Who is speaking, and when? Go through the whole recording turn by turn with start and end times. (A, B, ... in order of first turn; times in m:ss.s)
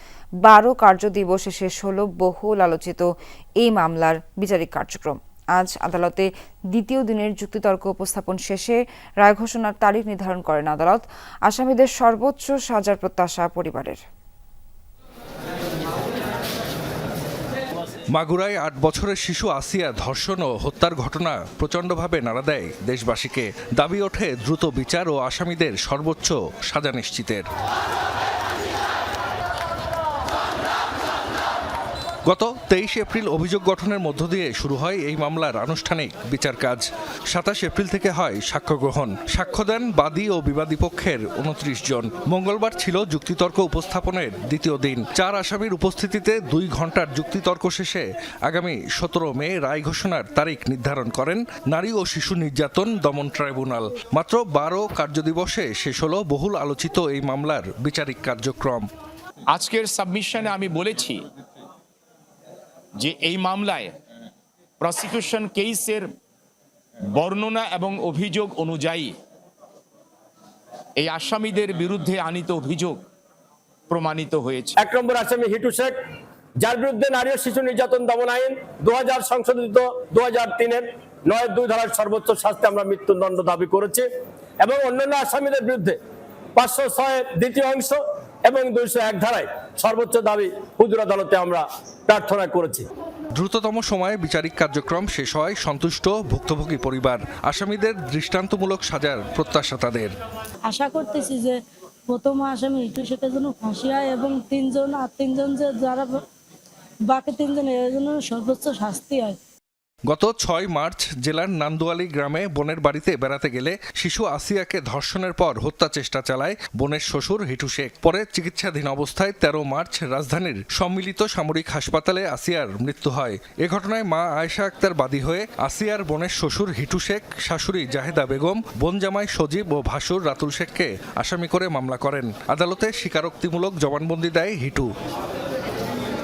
0:00.4-0:14.0 A
0:18.1-0:27.4 B
0:32.2-0:58.9 B
0:59.5-1:01.2 C
1:03.0-1:03.9 C
1:04.8-1:06.1 C
1:07.1-1:09.2 C
1:11.0-1:13.0 C
1:13.9-1:14.7 C
1:14.8-1:16.0 D
1:16.6-1:24.1 D
1:24.6-1:26.0 D
1:26.6-1:32.9 D
1:33.3-1:40.1 B
1:40.7-1:41.6 E
1:42.1-1:46.1 E
1:47.1-1:49.4 E
1:50.1-2:14.9 B